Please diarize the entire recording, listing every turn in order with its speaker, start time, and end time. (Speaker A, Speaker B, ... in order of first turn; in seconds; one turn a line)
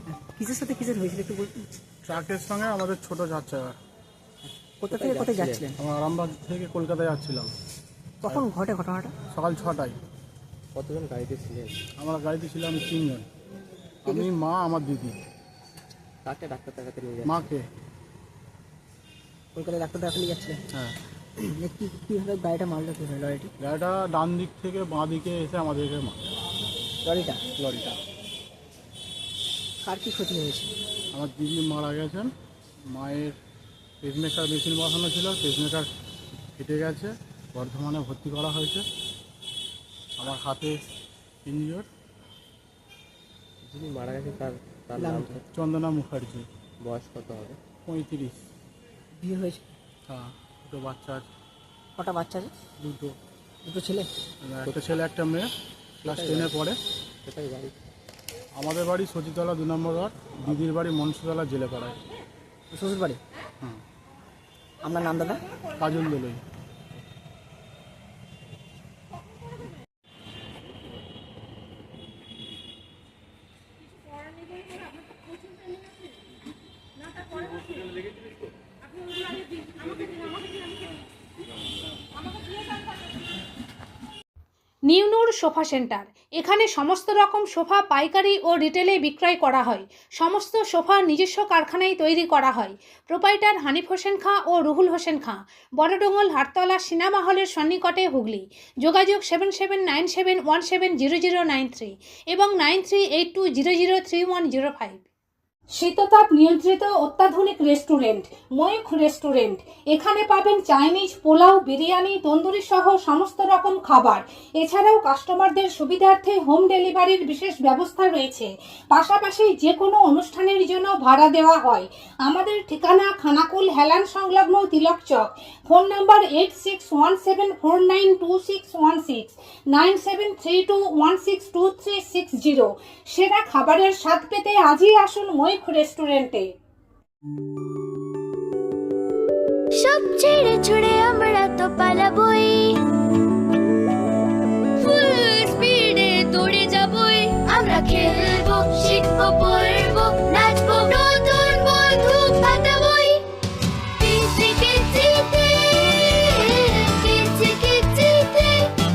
Speaker A: 0.2-1.6
Speaker B: 2.1-3.8
Speaker A: 4.8-5.8
Speaker C: 4.9-5.7
Speaker B: 5.8-7.5
Speaker A: 8.2-9.1
Speaker B: 9.3-10.0
Speaker C: 10.7-11.7
Speaker B: 12.0-13.3
Speaker B: 14.1-15.1
Speaker C: 16.2-17.4
Speaker B: 17.2-17.6
Speaker A: 19.5-20.6
Speaker A: 21.4-23.5
Speaker B: 23.6-26.2
Speaker A: 27.0-27.4
Speaker B: 27.6-28.0
Speaker A: 29.8-30.7
Speaker B: 31.1-32.3
Speaker B: 32.9-33.4
Speaker B: 34.0-35.9
Speaker B: 36.5-38.8
Speaker B: 40.2-40.8
Speaker B: 41.5-41.9
Speaker C: 43.7-45.4
Speaker A: 45.0-45.4
Speaker B: 45.5-46.5
Speaker C: 46.8-47.6
Speaker B: 47.9-48.4
Speaker A: 49.2-49.6
Speaker B: 50.1-51.3
Speaker A: 52.0-52.5
Speaker B: 52.8-53.1
Speaker A: 53.6-54.1
Speaker B: 54.4-55.5
Speaker C: 56.0-56.5
Speaker B: 56.0-56.8
Speaker C: 57.2-57.7
Speaker B: 58.5-62.0
Speaker A: 62.7-63.2
Speaker A: 64.8-65.4
Speaker B: 65.7-66.4
Speaker D: 84.9-105.0
Speaker D: 105.7-136.5
Speaker E: 139.8-142.7
Speaker E: 144.8-153.2
Speaker E: 154.0-158.7